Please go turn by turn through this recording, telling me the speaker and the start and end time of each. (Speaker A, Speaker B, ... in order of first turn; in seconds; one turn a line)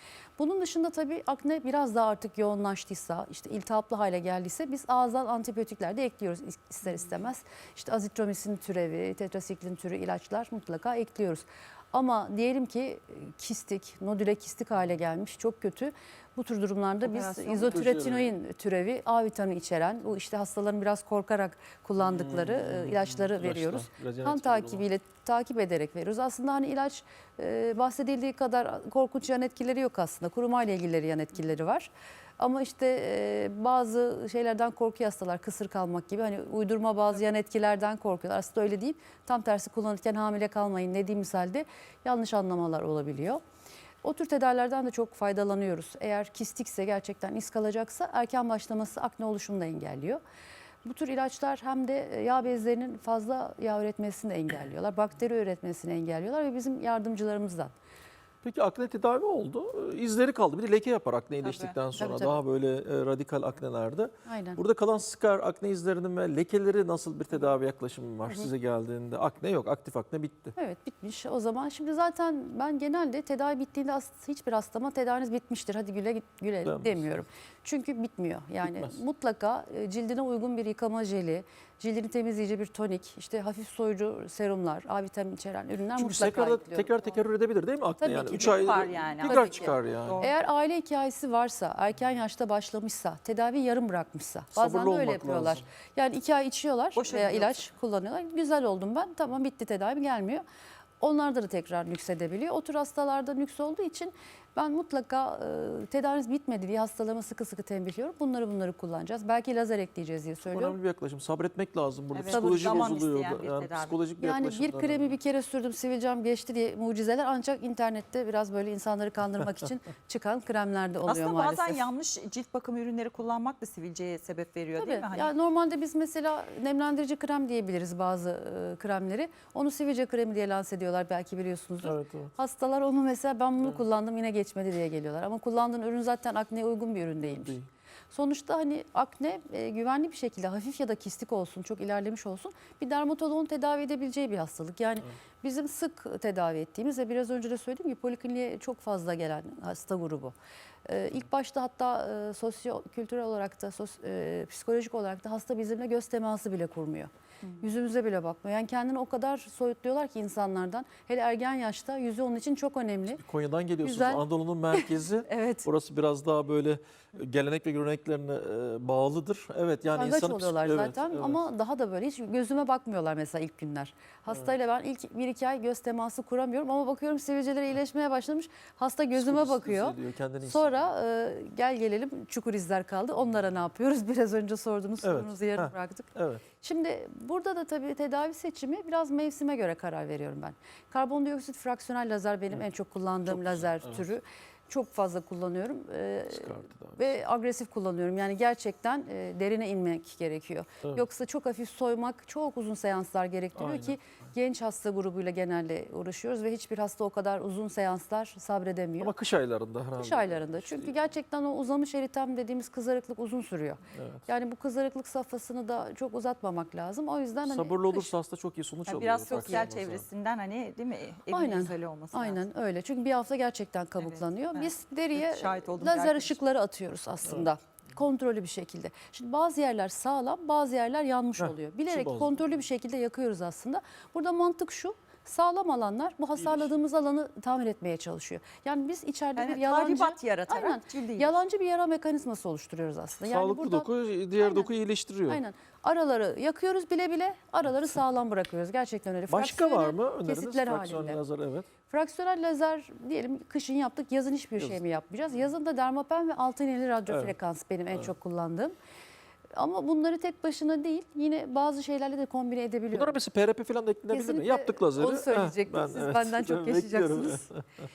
Speaker A: 0.4-43.4
Speaker B: 17.0-17.9
Speaker C: 17.7-18.3
Speaker C: 22.0-24.9
Speaker A: 44.0-50.2
Speaker A: 50.9-57.7
Speaker C: 58.4-70.5
Speaker B: 61.4-61.8
Speaker A: 62.0-62.4
Speaker A: 64.2-64.6
Speaker A: 70.5-87.0
Speaker C: 76.6-77.1
Speaker C: 78.6-79.0
Speaker C: 86.0-90.2
Speaker A: 88.0-100.4
Speaker B: 88.3-90.3
Speaker C: 94.5-95.6
Speaker B: 97.0-97.7
Speaker A: 101.0-110.8
Speaker C: 110.5-115.2
Speaker B: 112.1-114.0
Speaker A: 112.3-113.0
Speaker A: 114.2-121.8
Speaker B: 121.1-125.3
Speaker A: 124.8-137.6
Speaker C: 131.8-132.3
Speaker C: 137.3-137.7
Speaker A: 138.1-150.3
Speaker A: 150.9-163.2
Speaker C: 163.2-171.4
Speaker A: 163.8-165.7
Speaker A: 169.9-209.1
Speaker C: 179.1-180.9
Speaker C: 185.0-186.4
Speaker C: 193.3-194.0
Speaker C: 196.3-197.2
Speaker C: 203.5-204.0
Speaker C: 209.0-210.9
Speaker A: 210.0-218.1
Speaker C: 213.9-214.2
Speaker C: 217.4-220.1
Speaker B: 218.9-222.4
Speaker A: 219.3-219.7
Speaker A: 221.3-243.9
Speaker B: 224.0-226.4
Speaker C: 231.4-232.4
Speaker C: 236.4-236.7
Speaker B: 239.4-241.4
Speaker C: 243.2-245.4
Speaker A: 244.4-244.7
Speaker A: 245.3-251.2
Speaker C: 249.3-251.7
Speaker A: 251.9-258.7
Speaker C: 257.1-257.4
Speaker A: 259.5-263.2
Speaker C: 262.9-267.6
Speaker A: 264.1-267.5